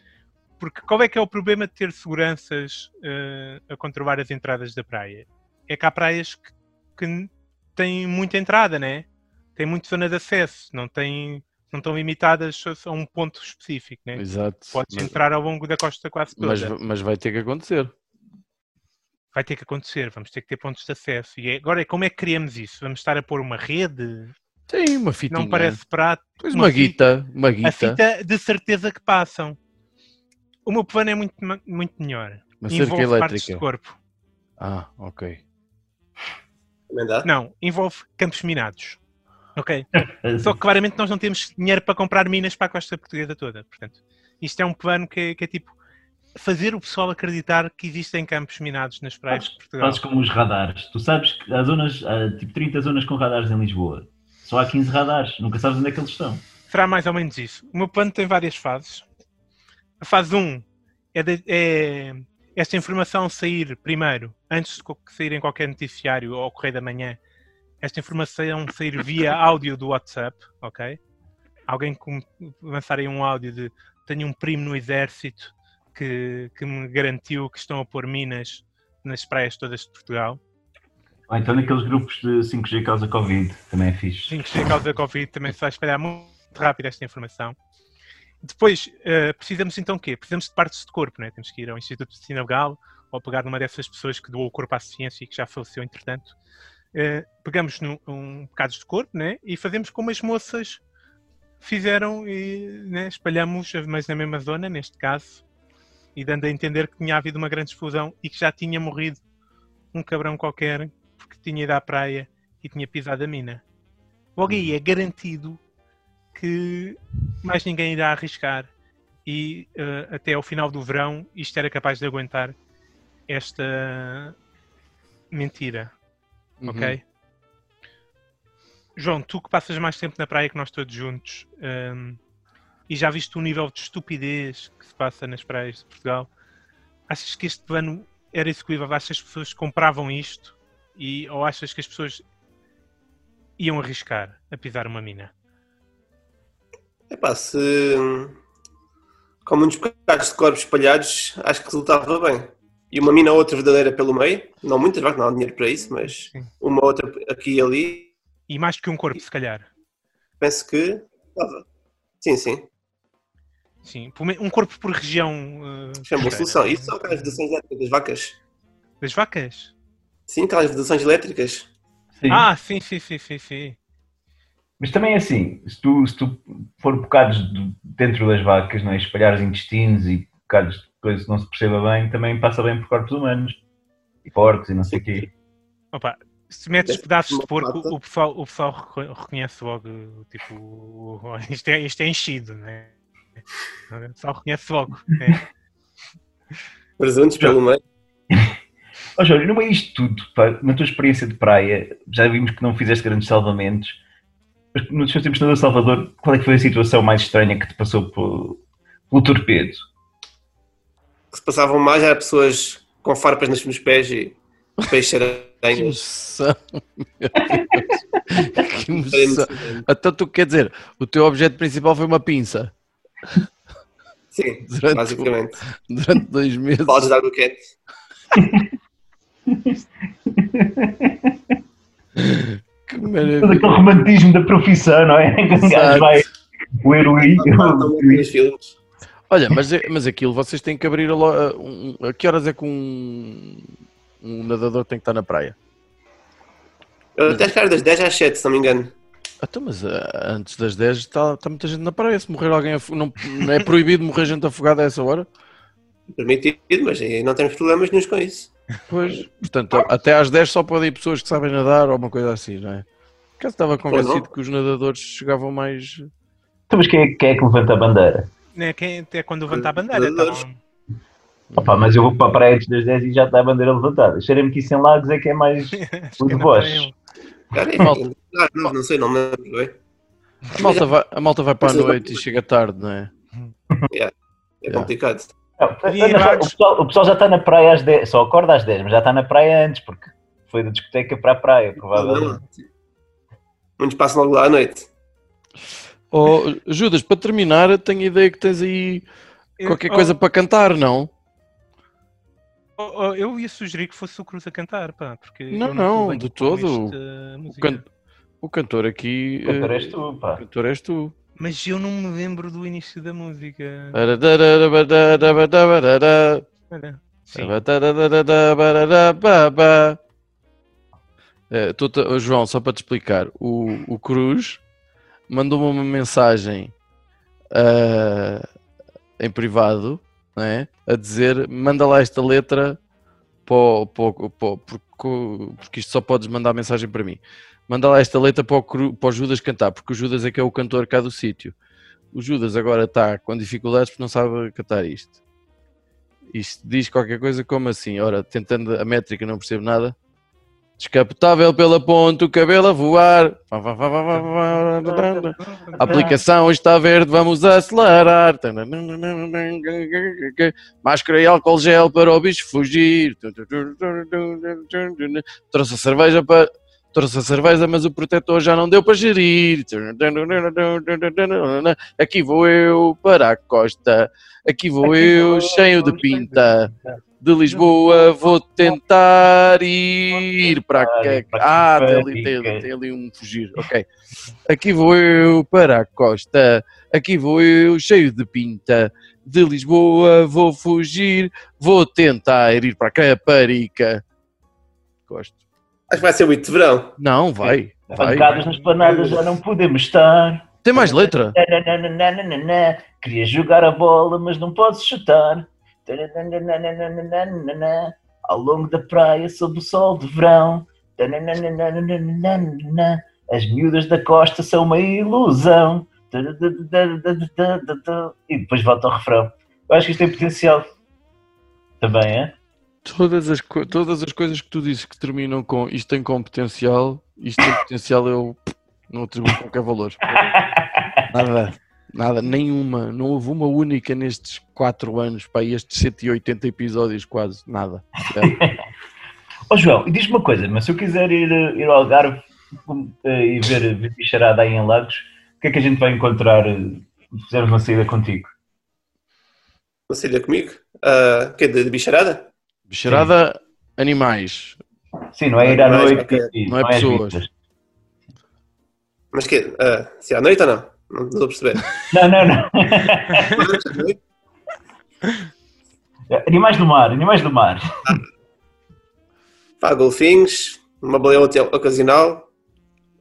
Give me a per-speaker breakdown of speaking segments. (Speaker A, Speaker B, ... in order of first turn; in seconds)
Speaker A: 0.6-16.7, 19.3-24.3, 25.3-27.0, 27.6-29.6, 30.6-34.0, 37.2-39.0, 39.5-39.9, 40.4-45.7, 46.4-50.0, 56.7-59.0, 60.0-67.2, 67.8-71.0, 71.7-80.4, 84.3-87.5, 88.4-96.3, 96.9-100.8, 101.6-105.4, 106.1-109.2, 109.9-113.6, 114.3-115.6, 116.3-118.7, 119.2-122.5, 123.3-124.3, 125.3-125.9, 126.6-127.0, 128.9-132.2, 132.9-136.3, 137.1-142.2, 143.6-145.3, 156.1-156.5, 158.5-159.7, 163.8-167.3, 169.0-169.7, 172.3-173.8, 185.9-192.9, 193.9-195.4, 268.5-270.6, 275.7-276.9, 285.9-286.5, 299.6-300.1, 302.8-307.8, 311.4-314.0, 316.7-317.5, 354.9-356.2, 398.3-398.7
Speaker B: 14.2-15.2, 16.4-17.9, 24.7-25.8, 26.4-28.0, 32.6-33.6, 34.6-35.4, 126.6-127.0, 215.7-222.7, 224.7-227.1, 232.2-233.8, 235.6-236.2, 239.3-245.6, 249.4-255.3, 258.9-262.9, 263.4-266.1, 271.5-271.9, 280.6-283.1, 295.6-299.1, 299.6-301.1, 305.5-306.9, 307.5-307.9, 308.4-311.1, 313.9-316.4, 317.3-320.0, 321.5-324.6, 325.3-326.7, 327.5-328.4, 329.2-332.8, 333.4-341.5, 342.1-345.1, 346.3-349.9, 350.8-383.9, 384.4-394.0, 395.1-395.4, 397.0-398.3, 400.6-401.4, 422.8-430.4, 431.1-438.4, 452.7-454.6, 456.4-457.2
Speaker C: 36.9-37.3, 147.1-148.4, 149.4-158.1, 160.4-161.6, 162.2-162.7, 166.0-168.4, 170.3-171.7, 186.9-187.9, 197.0-197.8, 211.3-216.0, 218.9-219.8, 224.3-225.6, 226.8-227.7, 237.3-238.8, 247.2-248.9, 256.1-258.5, 263.9-264.2, 269.5-270.4, 277.5-279.8, 280.6-280.9, 281.6-282.2, 283.9-285.3, 291.8-292.6, 293.8-294.9, 395.9-396.9, 398.8-399.2, 449.9-452.3, 455.4-456.3, 459.1-461.8, 463.2-464.0, 469.6-472.3
Speaker D: 40.2-40.6, 49.3-56.4, 81.3-84.4, 172.2-172.5, 174.8-183.6, 184.2-185.3, 199.2-204.0, 204.7-208.6, 209.1-209.8, 217.4-217.8, 228.3-228.7, 229.5-229.8, 230.3-231.3, 233.2-238.3, 266.7-268.3, 271.6-276.9, 285.6-292.4, 309.4-310.4, 355.8-356.1, 374.9-376.9, 380.7-382.7, 397.9-420.7, 421.8-422.3, 430.1-431.1, 438.1-438.6, 439.5-448.3, 455.1-457.3, 461.9-463.5, 466.1-468.0